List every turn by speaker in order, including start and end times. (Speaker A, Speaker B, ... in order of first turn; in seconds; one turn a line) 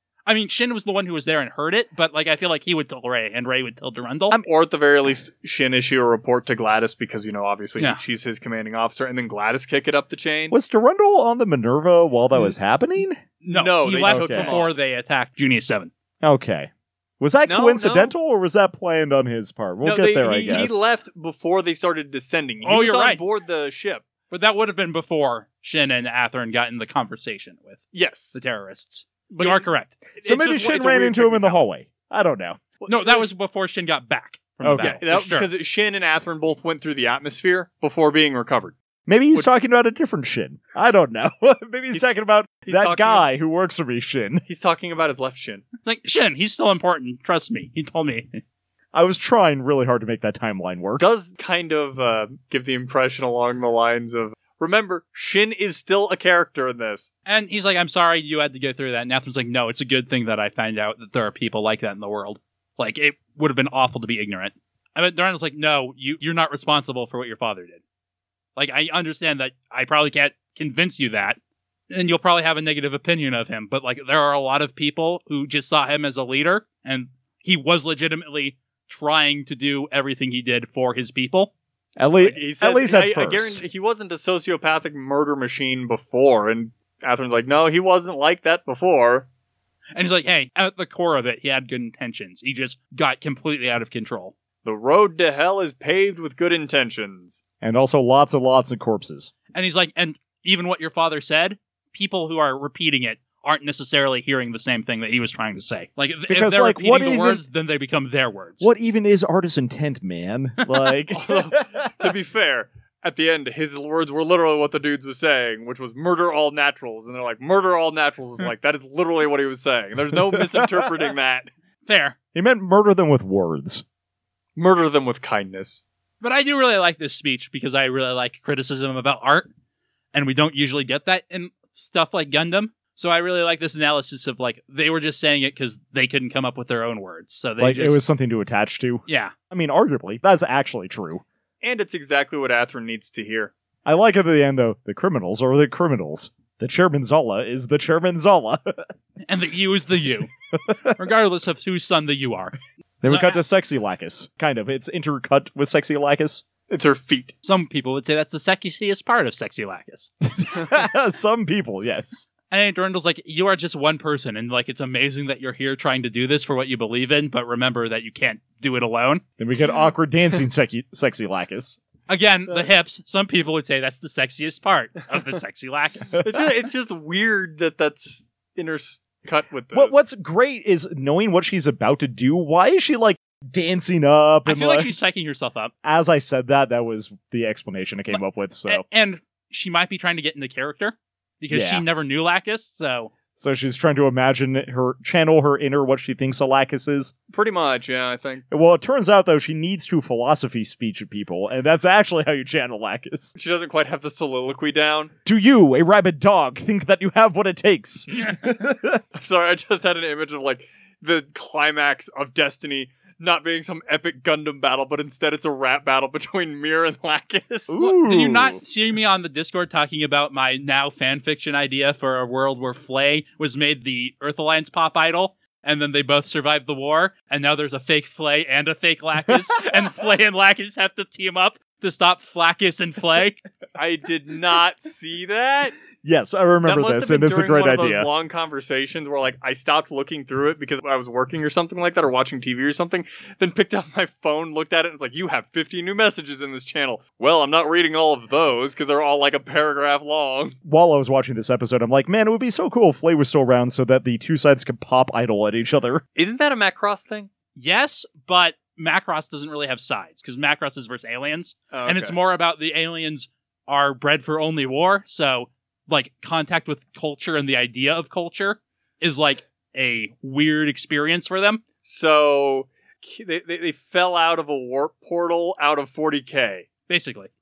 Speaker A: 0.3-4.4
Speaker B: 4.5-10.6
Speaker C: 10.5-13.2
Speaker A: 13.4-15.9
Speaker B: 13.5-14.7
Speaker C: 14.1-14.6
Speaker C: 16.2-20.8
Speaker B: 17.5-18.1
Speaker B: 19.8-24.0
Speaker A: 22.6-23.2
Speaker A: 24.3-27.8
Speaker B: 27.9-28.4
Speaker A: 28.3-30.0
Speaker B: 29.3-31.6
Speaker C: 30.2-32.6
Speaker B: 32.8-33.3
Speaker A: 32.9-35.5
Speaker C: 34.6-35.0
Speaker B: 34.8-38.8
Speaker C: 39.1-44.4
Speaker B: 42.6-43.2
Speaker B: 44.5-45.6
Speaker A: 45.9-48.4
Speaker C: 48.9-51.1
Speaker B: 51.0-57.1
Speaker A: 57.3-67.8
Speaker A: 68.6-71.4
Speaker A: 71.9-81.5
Speaker C: 82.0-83.6
Speaker B: 82.2-89.3
Speaker A: 90.0-94.3
Speaker B: 94.6-97.4
Speaker C: 97.6-99.3
Speaker A: 99.5-108.7
Speaker C: 106.3-107.4
Speaker C: 108.6-111.9
Speaker B: 111.1-121.5
Speaker A: 121.9-122.2
Speaker C: 122.3-123.8
Speaker B: 124.6-125.8
Speaker A: 126.2-129.5
Speaker A: 130.1-138.0
Speaker C: 137.6-141.2
Speaker A: 139.1-139.3
Speaker B: 141.6-143.5
Speaker C: 143.9-148.9
Speaker A: 149.3-150.3
Speaker A: 150.9-153.4
Speaker C: 153.0-156.4
Speaker B: 156.7-157.3
Speaker A: 157.4-160.1
Speaker C: 160.3-162.3
Speaker A: 162.5-169.2
Speaker C: 169.4-171.8
Speaker A: 172.1-176.2
Speaker B: 176.2-180.0
Speaker C: 179.7-184.9
Speaker A: 184.4-185.7
Speaker C: 185.8-188.8
Speaker A: 188.1-193.1
Speaker C: 191.5-191.8
Speaker C: 193.4-197.1
Speaker B: 197.3-198.4
Speaker C: 198.5-203.3
Speaker B: 203.4-205.1
Speaker C: 205.2-209.0
Speaker B: 209.1-217.8
Speaker C: 217.7-218.6
Speaker A: 217.8-233.4
Speaker B: 233.8-235.8
Speaker C: 236.0-238.1
Speaker B: 236.6-250.6
Speaker C: 250.6-256.0
Speaker B: 256.1-257.3
Speaker A: 257.6-271.6
Speaker B: 261.7-262.1
Speaker B: 271.8-276.7
Speaker A: 276.9-277.3